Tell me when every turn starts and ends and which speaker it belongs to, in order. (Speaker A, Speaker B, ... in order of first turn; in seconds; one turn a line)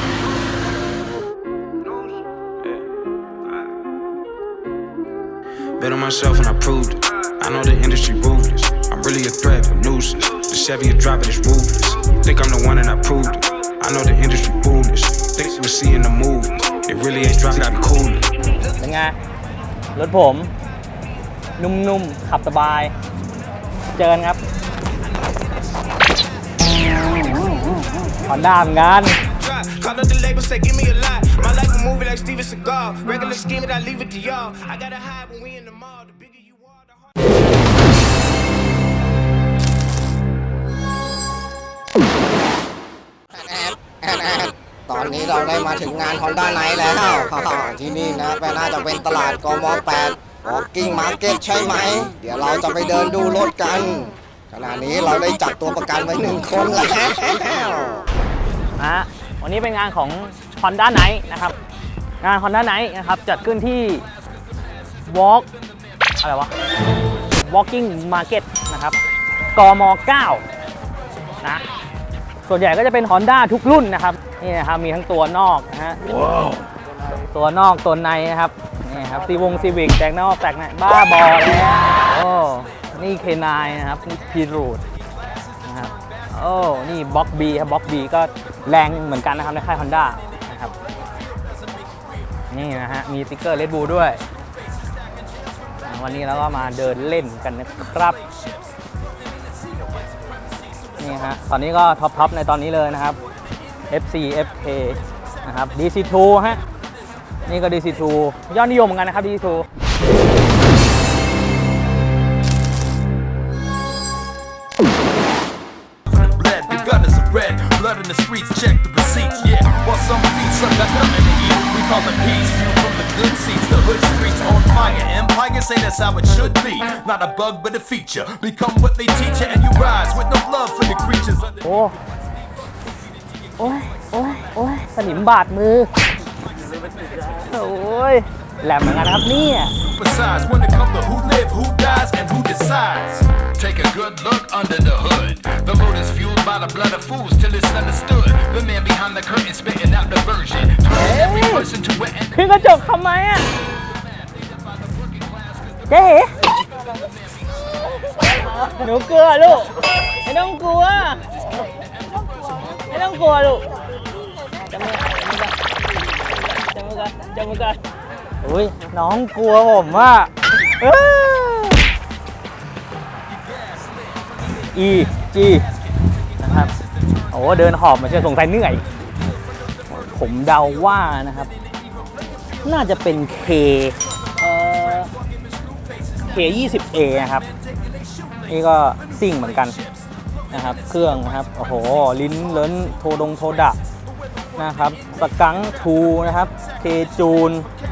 Speaker A: 5.8-18.2
Speaker B: 18.8-19.1
Speaker B: 19.9-20.5
Speaker B: 21.6-22.9
Speaker B: 23.9-24.4
Speaker B: 27.1-27.4
Speaker B: 28.2-29.2
Speaker C: 29.4-36.0
Speaker D: 43.3-58.0
Speaker B: 58.8-61.5
Speaker B: 62.2-64.0
Speaker B: 65.1-65.5
Speaker B: 66.2-66.5
Speaker B: 67.3-69.0
Speaker B: 69.5-70.4
Speaker B: 72.5-76.0
Speaker B: 77.3-84.8
Speaker B: 85.6-90.7
Speaker B: 92.5-94.2
Speaker B: 95.8-98.2
Speaker B: 101.0-103.2
Speaker B: 103.9-106.6
Speaker B: 107.5-109.7
Speaker E: 116.1-131.6
Speaker B: 131.6-131.9
Speaker B: 133.6-135.9
Speaker B: 137.3-139.7
Speaker E: 139.8-152.3
Speaker B: 150.9-151.7
Speaker B: 152.3-153.4
Speaker B: 155.9-156.3
Speaker B: 158.3-161.4
Speaker B: 162.7-163.7
Speaker B: 164.7-165.5
Speaker B: 166.4-167.8
Speaker B: 168.4-171.8
Speaker B: 174.7-175.6
Speaker B: 176.4-176.7
Speaker B: 177.3-178.8
Speaker B: 179.9-181.5
Speaker B: 182.6-185.1
Speaker B: 186.2-187.4
Speaker B: 188.5-189.8
Speaker B: 190.5-193.8
Speaker B: 194.6-197.7